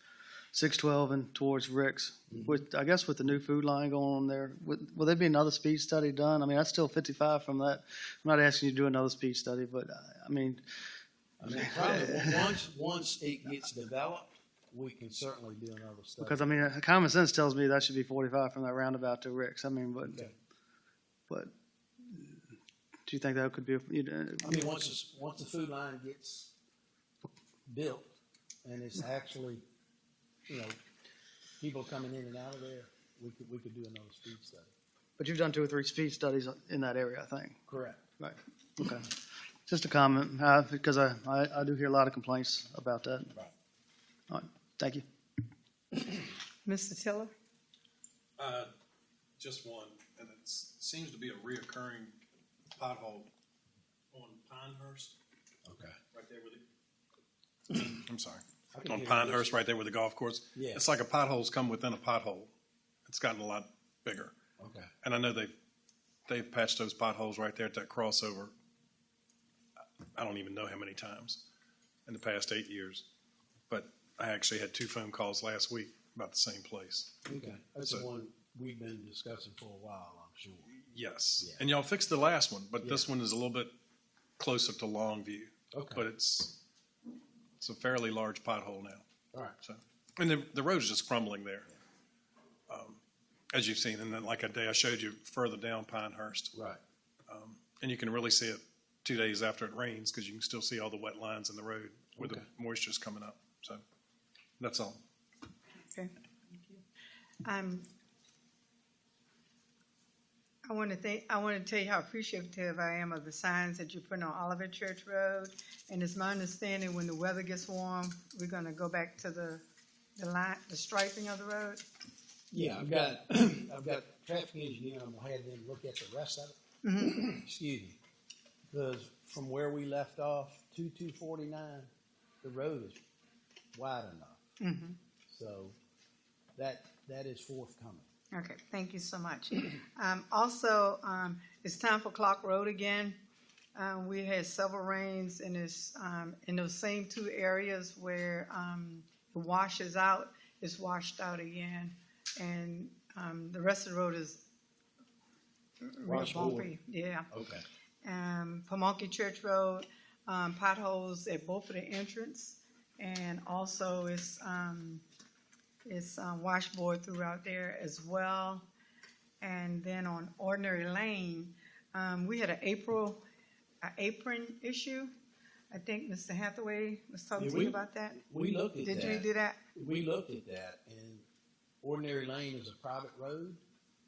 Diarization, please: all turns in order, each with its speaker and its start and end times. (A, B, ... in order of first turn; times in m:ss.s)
0:00.5-0:10.6 A
0:11.4-0:16.7 B
0:11.5-0:12.4 A
0:16.2-0:20.3 A
0:20.1-0:20.3 B
0:22.0-0:22.4 A
0:23.1-0:24.5 A
0:24.4-0:26.5 B
0:27.7-0:28.1 B
0:28.6-0:29.6 B
0:30.5-0:30.8 B
0:31.6-0:34.7 B
0:35.2-0:37.6 A
0:37.7-0:38.0 B
0:38.2-0:39.1 A
0:39.7-0:43.3 A
0:44.3-0:45.0 A
0:46.6-0:47.3 C
0:48.4-0:48.7 D
0:49.4-0:52.2 D
0:52.8-0:53.3 D
0:54.1-0:55.2 D
0:55.6-0:56.0 B
0:56.1-0:56.6 D
0:57.8-1:02.5 D
0:58.7-0:59.6 B
1:00.6-1:00.9 B
1:03.1-1:04.4 D
1:04.6-1:04.9 B
1:05.0-1:05.5 D
1:06.3-1:08.5 D
1:10.2-1:11.4 D
1:12.1-1:13.0 D
1:13.7-1:17.2 D
1:17.3-1:20.7 B
1:20.8-1:23.7 D
1:21.4-1:21.6 B
1:22.8-1:23.1 B
1:24.4-1:26.6 D
1:25.7-1:26.0 B
1:27.6-1:29.0 D
1:29.6-1:31.7 D
1:32.7-1:33.0 D
1:33.5-1:36.5 D
1:36.5-1:36.8 B
1:37.3-1:43.8 D
1:42.2-1:42.4 B
1:44.6-1:45.0 D
1:45.9-1:46.8 C
1:47.4-1:47.9 C
1:50.7-1:59.6 C
2:00.2-2:01.8 C
2:02.5-2:08.0 B
2:06.8-2:07.2 C
2:08.7-2:11.9 B
2:12.4-2:13.0 B
2:13.7-2:14.4 B
2:14.6-2:15.0 C
2:15.3-2:15.8 B
2:16.6-2:18.1 B
2:18.3-2:23.2 C
2:23.8-2:34.4 C
2:35.8-2:37.3 C
2:36.0-2:36.7 B
2:37.3-2:37.6 B
2:38.0-2:45.0 C
2:45.8-2:48.7 C
2:49.4-2:53.2 C
2:53.8-2:55.1 C
2:55.7-2:58.2 C
2:57.4-3:01.2 B
2:58.8-2:59.6 C
3:01.8-3:03.6 B